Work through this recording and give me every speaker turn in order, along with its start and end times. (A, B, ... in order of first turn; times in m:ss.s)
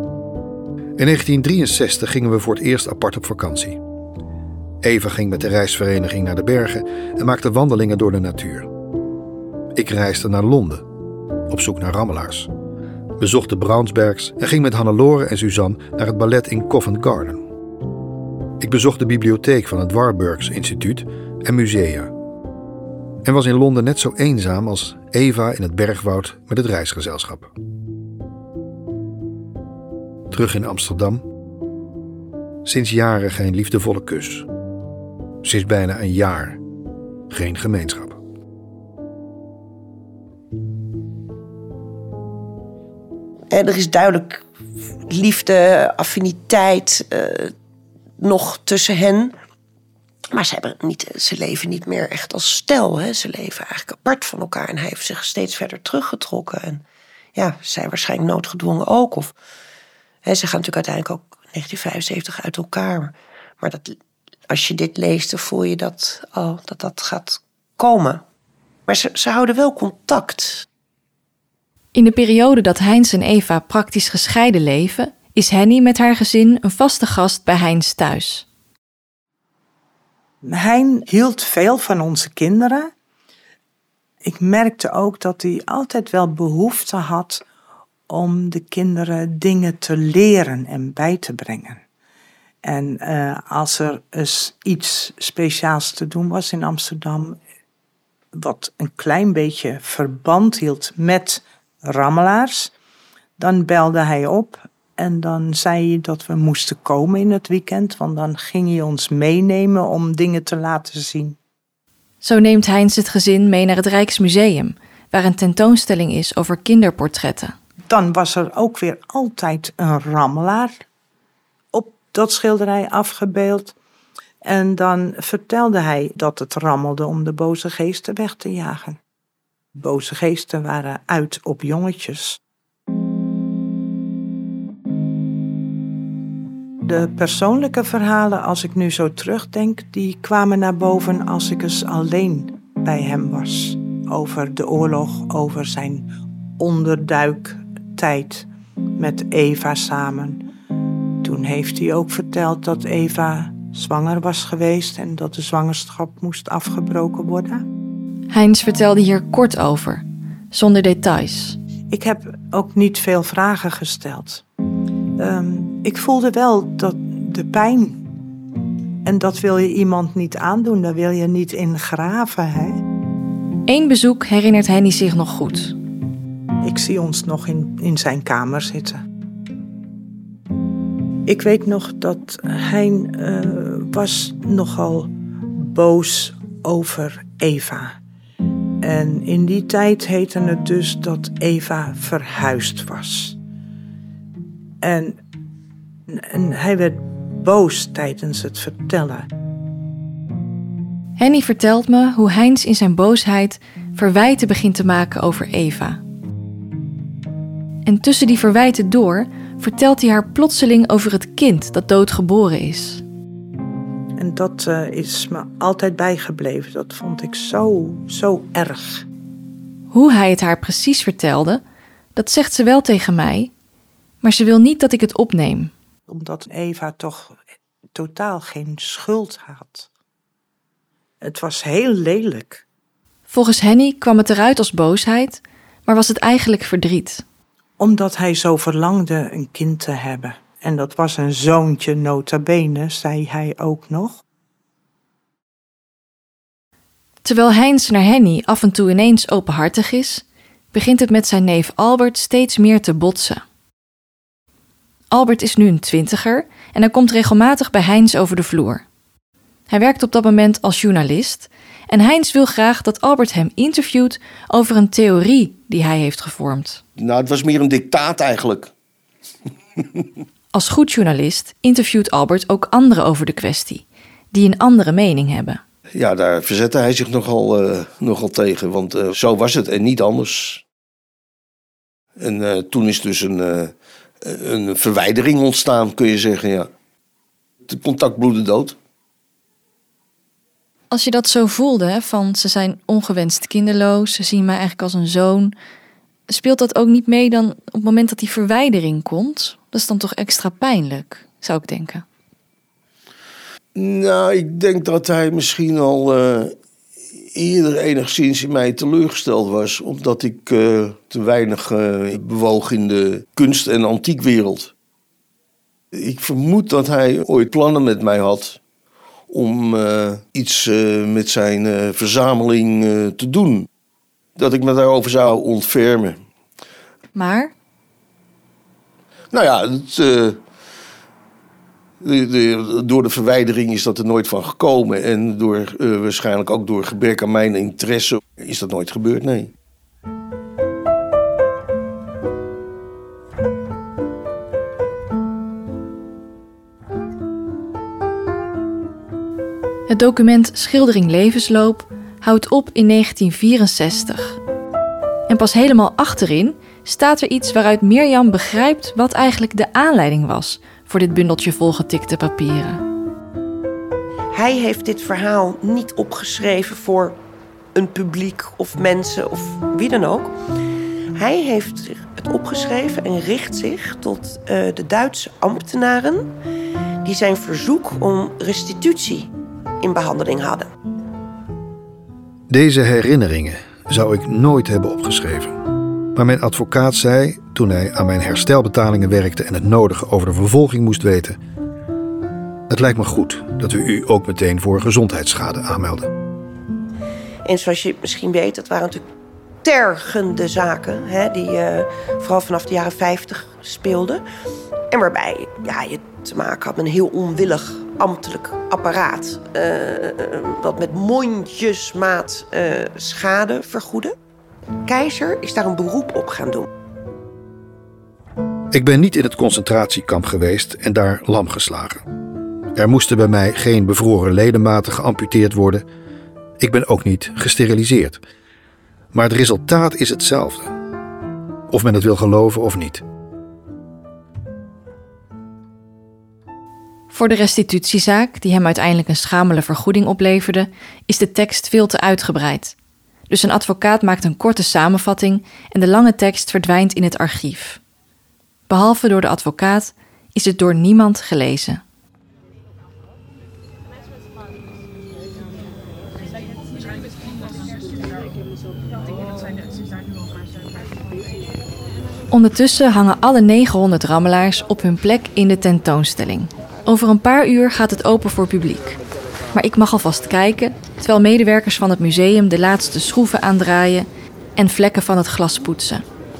0:01.0-0:03.8 A
0:04.8-0:08.7 A
0:09.7-0:10.8 A
0:11.5-0:12.5 A
0:13.2-0:17.4 A
0:18.6-0:22.1 A
0:23.2-0:27.5 A
0:30.3-0:31.2 A
0:32.6-0:34.5 A
0:35.4-0:36.6 A
0:37.3-0:38.2 A
0:43.5-0:44.4 B
0:45.1-0:47.5 B
0:48.2-0:49.4 B
0:50.3-0:56.8 B
0:57.3-0:59.3 B
1:00.2-1:04.0 B
1:04.5-1:08.2 B
1:08.9-1:10.6 B
1:11.9-1:18.4 C
1:20.4-1:22.9 D
1:24.2-1:27.4 D
1:28.1-1:31.8 D
1:32.6-1:37.4 D
1:38.3-1:42.7 D
1:43.4-1:51.4 D
1:52.2-1:57.5 C
1:57.9-2:00.8 D
2:01.7-2:03.7 D
2:04.4-2:09.0 D
2:09.8-2:12.4 D
2:16.8-2:26.1 D
2:26.6-2:30.4 D
2:31.2-2:37.6 D
2:38.3-2:41.6 C
2:41.9-2:44.4 D
2:45.2-2:48.0 D
2:49.0-2:52.8 D
2:53.7-2:55.7 C
2:56.6-2:59.0 D
3:01.2-3:08.0 D
3:08.8-3:13.4 D
3:14.8-3:15.2 D
3:16.1-3:19.3 D
3:21.2-3:26.0 C
3:27.8-3:33.0 C
3:34.2-3:39.0 D
3:39.9-3:41.6 C
3:42.2-3:43.5 C
3:44.2-3:45.7 C
3:46.1-3:47.4 D
3:47.9-3:49.9 D
3:51.2-3:52.6 D
3:53.3-3:57.2 C
3:57.8-4:04.2 D
4:07.2-4:13.4 C
4:15.1-4:18.8 C
4:19.7-4:26.8 C
4:27.0-4:28.7 E
4:29.8-4:30.0 E
4:30.5-4:35.6 C
4:35.9-4:40.6 E
4:42.2-4:46.7 E
4:47.6-4:48.8 E
4:50.9-4:55.5 C
4:56.3-5:02.0 C
5:03.7-5:06.5 E
5:07.2-5:14.7 E
5:15.9-5:18.6 E
5:19.3-5:23.7 E
5:24.4-5:26.2 E
5:27.1-5:27.5 C
5:29.3-5:30.4 E
5:32.0-5:39.5 E
5:49.9-5:54.4 C
5:55.3-6:02.8 C
6:04.3-6:07.2 B
6:07.7-6:10.3 B
6:11.2-6:16.3 B
6:17.0-6:19.3 B
6:19.8-6:20.7 B
6:22.5-6:25.6 A
6:26.1-6:31.4 A
6:32.7-6:36.1 A
6:37.4-6:39.0 B
6:39.6-6:44.2 B
6:44.9-6:54.1 B
6:54.8-6:56.7 B
6:58.7-7:02.0 A
7:02.7-7:05.8 A
7:06.6-7:08.2 A
7:09.1-7:10.7 A
7:11.7-7:13.0 A
7:17.1-7:22.7 C
7:23.3-7:27.8 C
7:28.7-7:31.8 C
7:42.3-7:49.0 C
7:49.5-7:56.0 C